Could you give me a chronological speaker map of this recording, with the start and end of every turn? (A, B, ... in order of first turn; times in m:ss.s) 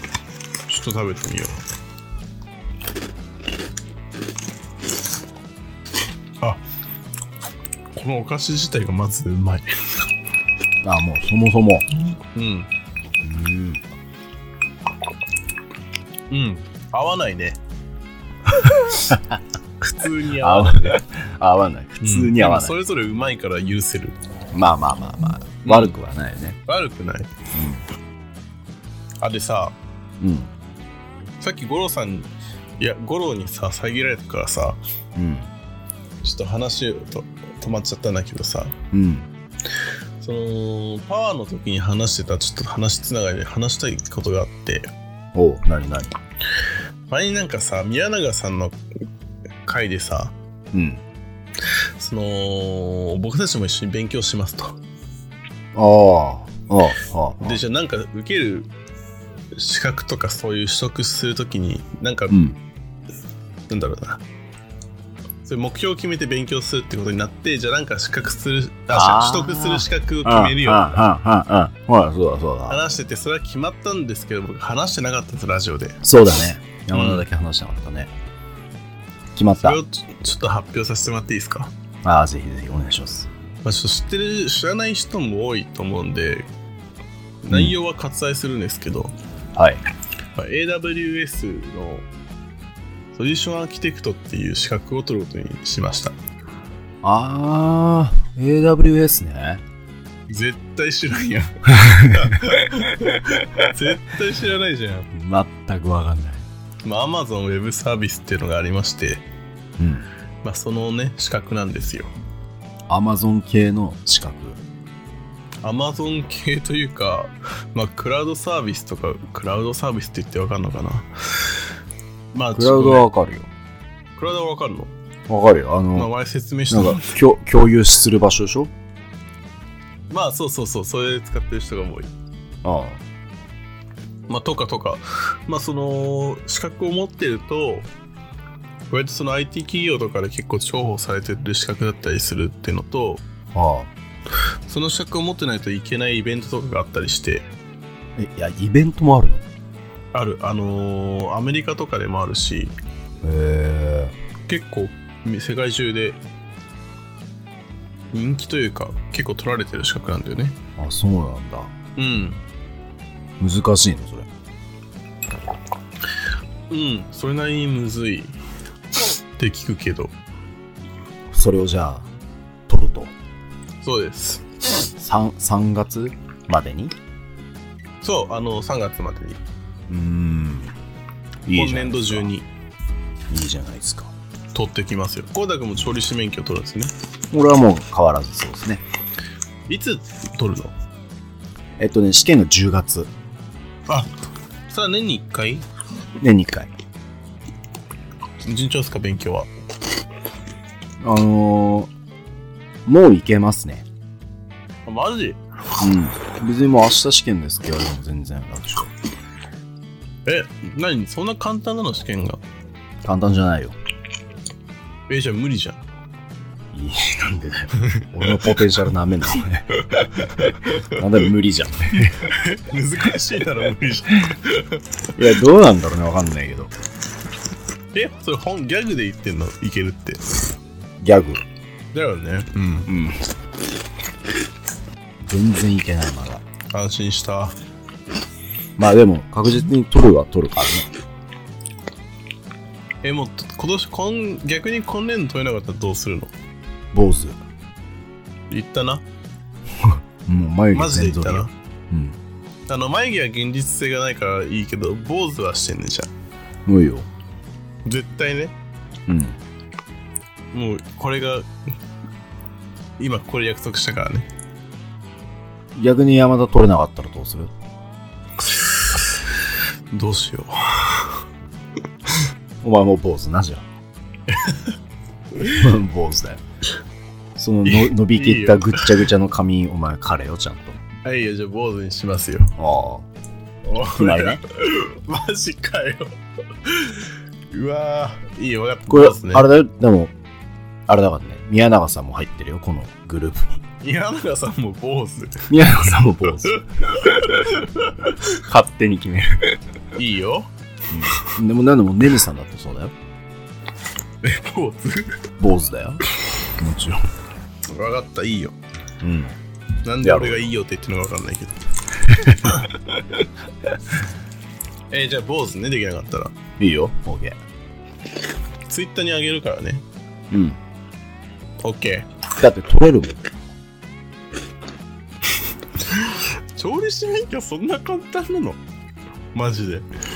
0:00.7-0:01.6 A
0:08.0-0:09.9 A
0:10.8-0:11.9 B
0:12.3-0:12.7 A
0:13.2-0:13.8 B
0:16.3-0:17.6 A
0:18.7-0:19.0 A
0:18.9-0:19.4 B
0:19.8-0:21.0 A
0:20.4-0:22.8 B
0:22.0-0:24.2 A
0:24.5-0:26.6 B
0:25.6-0:25.9 A
0:26.7-0:27.3 A
0:27.5-0:27.8 B
0:29.2-0:29.8 A
0:30.2-0:30.5 B
0:31.4-0:34.8 A
0:35.2-0:35.5 B
0:36.2-0:38.8 A
0:38.9-0:39.3 B
0:40.2-0:44.9 A
0:45.3-0:46.2 B
0:47.1-0:48.8 A
0:49.6-0:50.3 A
0:50.7-0:51.0 B
0:52.0-0:54.8 A
0:55.7-0:57.6 B
0:57.4-0:58.7 A
0:59.6-1:02.4 A
1:02.3-1:02.6 B
1:03.7-1:04.2 A
1:05.4-1:10.9 A
1:08.9-1:12.8 B
1:12.7-1:16.0 A
1:16.0-1:18.1 B
1:16.9-1:17.2 A
1:19.4-1:19.8 B
1:19.6-1:21.7 A
1:22.0-1:23.3 B
1:23.6-1:26.5 A
1:27.4-1:29.1 A
1:29.6-1:29.8 B
1:30.4-1:32.1 A
1:33.1-1:36.2 A
1:37.0-1:39.6 B
1:40.3-1:45.1 A
1:41.7-1:42.6 B
1:45.1-1:46.5 B
1:46.8-1:49.2 A
1:49.8-1:50.1 B
1:50.4-1:52.1 A
1:52.9-1:54.6 B
1:55.6-2:01.1 A
2:02.3-2:03.1 A
2:02.5-2:03.5 B
2:04.2-2:04.9 A
2:05.3-2:06.1 B
2:05.9-2:07.1 A
2:06.7-2:08.7 B
2:10.1-2:12.1 A
2:12.6-2:13.0 B
2:14.3-2:17.9 A
2:18.9-2:23.2 A
2:23.5-2:23.9 B
2:24.7-2:27.5 A
2:28.2-2:29.4 B
2:30.1-2:32.8 A
2:33.2-2:34.2 B
2:34.5-2:36.2 A
2:38.1-2:40.6 A
2:40.8-2:41.7 B
2:42.0-2:42.4 A
2:43.4-2:44.3 B
2:46.7-2:48.4 A
2:49.4-2:50.2 A
2:51.3-2:52.1 B
2:52.7-2:53.1 B
2:53.8-2:54.5 A
2:55.0-2:57.0 B
2:58.0-2:59.4 A
2:59.9-3:00.8 B
3:01.5-3:02.3 B
3:01.5-3:02.5 A
3:03.3-3:04.1 B
3:04.5-3:06.9 A
3:07.3-3:08.8 B
3:09.7-3:10.7 A
3:11.8-3:13.1 B
3:14.7-3:15.7 A
3:16.2-3:16.7 B
3:18.4-3:19.5 A
3:21.0-3:21.9 B
3:22.9-3:23.9 B
3:24.9-3:25.4 A
3:25.8-3:28.9 B
3:30.2-3:32.4 A
3:33.0-3:33.8 B
3:35.1-3:35.8 A
3:36.7-3:42.2 B
3:37.8-3:38.6 A
3:39.8-3:41.0 A
3:42.0-3:44.8 A
3:45.2-3:46.7 B
3:47.9-3:50.2 A
3:51.0-3:51.4 B
3:51.9-3:52.9 A
3:52.9-3:53.3 B
3:55.2-3:56.4 B
3:56.7-3:57.6 A
3:58.8-4:00.9 B
4:03.0-4:06.3 A
4:06.9-4:07.4 B
4:08.5-4:09.0 A
4:09.8-4:12.2 B
4:10.7-4:11.5 A
4:12.7-4:16.1 A
4:16.7-4:17.1 B
4:17.8-4:18.5 A
4:19.1-4:19.4 B
4:20.5-4:21.5 A
4:23.0-4:24.3 A
4:25.8-4:27.5 B
4:28.4-4:29.2 A
4:29.9-4:31.1 A
4:32.6-4:33.7 B
4:34.3-4:34.8 A
4:35.4-4:35.6 A
4:35.4-4:36.4 B
4:37.4-4:40.8 B
4:37.6-4:39.0 A
4:41.0-4:42.5 A
4:42.6-4:43.1 B
4:43.6-4:49.5 A
4:43.9-4:44.4 B
4:48.9-4:50.1 B
4:50.9-4:53.6 B
4:53.8-4:55.5 A
4:55.5-4:56.6 B
4:56.4-4:58.2 A
4:58.3-4:59.6 B
5:00.0-5:00.5 A
5:00.9-5:02.9 B
5:04.2-5:05.2 A
5:05.4-5:06.0 B
5:06.6-5:07.0 B
5:07.7-5:08.6 A
5:09.0-5:09.4 B
5:09.8-5:11.6 A
5:10.0-5:10.5 B
5:12.1-5:12.7 B
5:12.4-5:12.7 A
5:14.9-5:16.3 A
5:16.6-5:17.4 B
5:18.7-5:19.8 A
5:20.3-5:20.6 B
5:21.6-5:22.1 A
5:22.4-5:23.2 B
5:25.9-5:28.6 A
5:29.4-5:29.9 A